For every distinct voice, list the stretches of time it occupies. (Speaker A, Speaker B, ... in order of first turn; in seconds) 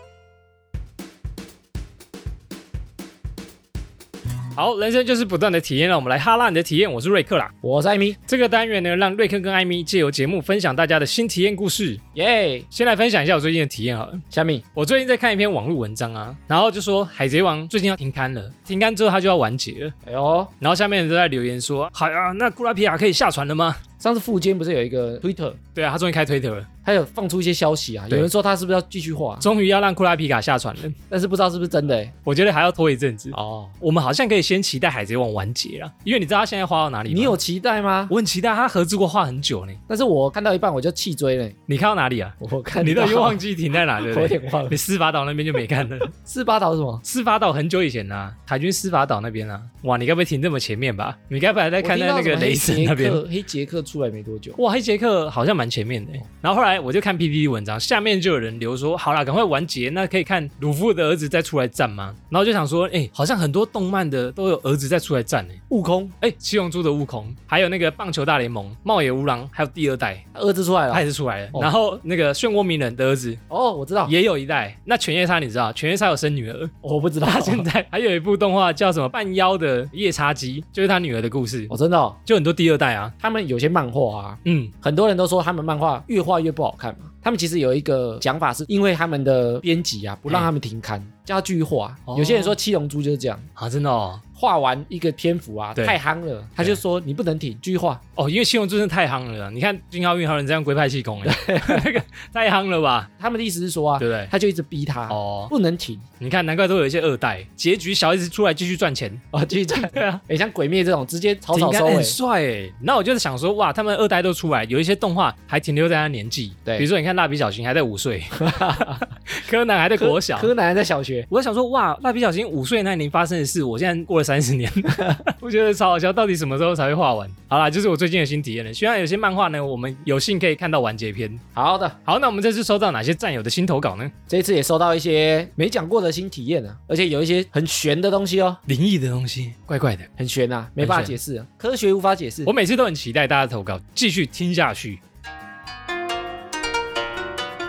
Speaker A: 4.5-7.5, 8.3-12.0, 12.7-14.2, 14.7-19.9, 20.6-23.8, 25.7-26.7, 29.4-31.0, 32.2-37.4, 38.1-39.8, 41.7-46.1, 47.0-53.2, 54.6-65.6, 66.2-70.2, 70.9-73.4, 74.0-76.7, 77.2-81.7, 82.2-83.1, 84.4-84.7, 92.1-92.6, 93.6-94.2, 98.2-103.1, 104.0-104.3, 105.1-105.5, 106.2-109.2, 109.7-110.2, 111.5-120.5, 121.3-131.4, 132.1-134.1, 138.7-140.1, 140.8-141.2, 142.4-145.0
Speaker B: 7.6-8.2, 12.1-12.7, 14.3-14.6, 20.0-20.5, 24.0-25.6, 26.8-29.4, 31.1-32.1, 33.3-33.7, 37.1-38.1, 39.9-41.5, 42.4-43.4, 44.0-44.8, 46.1-47.0, 51.8-54.6, 65.7-66.2, 70.3-71.7, 73.5-74.1, 76.8-77.7, 81.7-82.2, 83.2-93.5, 94.3-98.0, 101.2-101.9, 103.2-106.0, 109.3-112.2, 118.4-119.0, 120.0-121.3, 124.9-125.2, 131.5-132.0, 134.3-138.6, 140.2-142.5